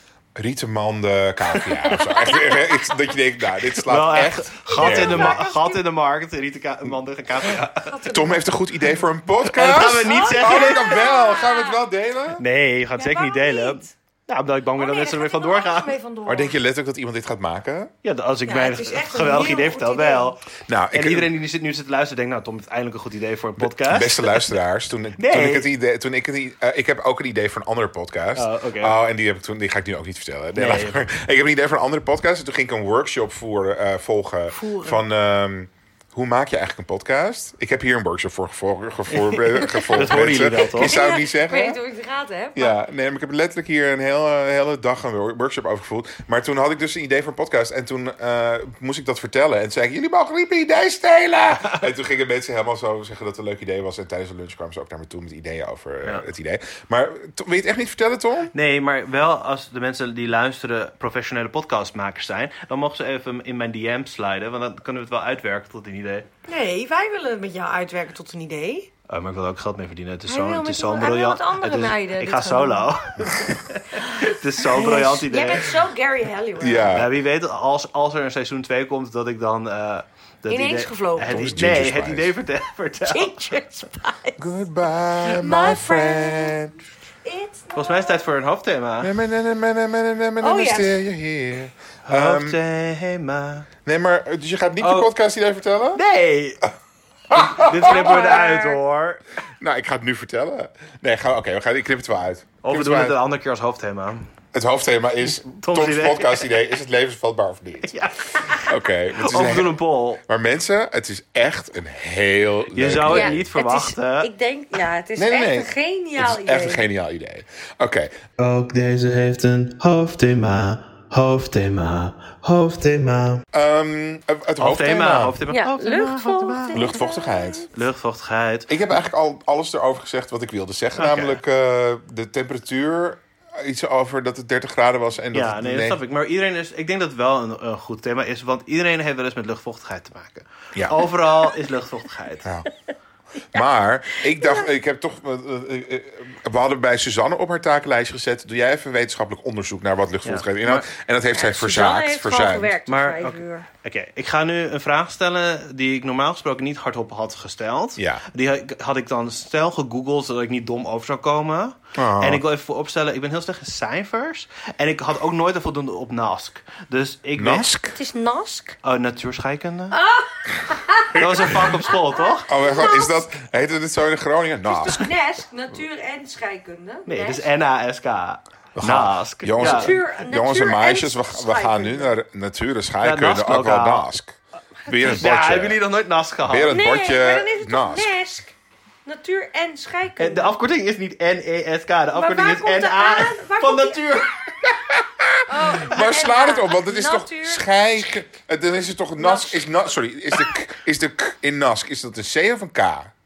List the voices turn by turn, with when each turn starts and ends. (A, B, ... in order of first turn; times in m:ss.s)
0:00.3-0:05.4 A
0:02.0-0:02.6 B
0:03.8-0:08.0 C
0:04.7-0:05.8 B
0:07.7-0:08.5 B
0:08.1-0:12.4 A
0:09.4-0:11.0 C
0:10.0-0:11.8 B
0:12.4-0:16.0 C
0:12.9-0:13.9 B
0:14.8-0:16.5 B
0:16.2-0:17.9 A
0:18.0-0:24.4 C
0:18.4-0:20.4 B
0:20.7-0:21.3 A
0:23.6-0:41.8 A
0:25.2-0:25.7 C
0:28.4-0:29.0 C
0:30.5-0:31.0 C
0:34.5-0:35.0 B
0:39.1-0:41.0 C
0:39.7-0:42.8 B
0:42.5-0:58.5 A
0:58.5-1:06.3 C
1:06.5-1:08.9 B
1:09.1-1:15.7 C
1:10.3-1:12.9 B
1:13.9-1:17.0 B
1:16.6-1:17.1 A
1:16.9-1:23.6 C
1:20.5-1:21.4 B
1:21.2-1:22.3 A
1:23.1-1:24.4 B
1:24.4-1:26.7 A
1:25.2-1:26.6 B
1:27.2-1:28.2 B
1:27.7-1:29.1 C
1:29.0-1:32.6 A
1:30.4-1:31.0 B
1:32.0-1:33.7 C
1:33.8-1:36.0 A
1:34.8-1:35.1 C
1:35.9-1:36.6 C
1:37.3-1:38.4 A
1:37.3-1:39.2 C
1:37.6-1:38.8 B
1:39.6-1:43.2 A
1:42.6-1:44.3 C
1:44.5-1:47.9 A
1:45.3-1:46.6 C
1:47.8-1:50.2 C
1:48.5-1:49.8 A
1:50.3-1:53.4 A
1:52.7-1:54.3 C
1:53.0-1:56.8 B
1:55.2-1:58.1 A
1:58.4-2:03.4 C
2:03.5-2:05.4 A
2:04.6-2:07.0 C
2:05.5-2:07.7 B
2:06.7-2:07.7 A
2:07.7-2:08.7 C
2:08.7-2:16.0 A
2:11.0-2:11.4 C
2:15.3-2:22.5 C
2:20.7-2:21.0 A
2:23.5-2:32.8 A
2:24.2-2:24.7 B
2:30.2-2:30.9 C
2:31.3-2:33.6 B
2:32.9-2:47.7 C
2:38.0-2:38.2 A
2:41.9-2:42.4 A
2:47.4-2:48.0 A
2:47.9-2:48.8 B
2:48.8-2:50.0 C
2:49.9-2:53.2 B
2:51.1-2:52.5 C
2:51.2-2:51.7 A
2:52.5-2:55.1 A
2:54.6-2:57.5 B
2:57.1-3:00.0 C
2:58.8-3:05.8 A
2:59.6-3:02.1 B
3:03.0-3:04.1 C
3:05.0-3:06.8 C
3:06.4-3:08.1 A
3:06.7-3:08.5 B
3:09.0-3:10.5 B
3:10.2-3:14.7 C
3:12.1-3:14.2 B
3:14.9-3:23.1 A
3:15.5-3:17.6 B
3:19.2-3:19.7 B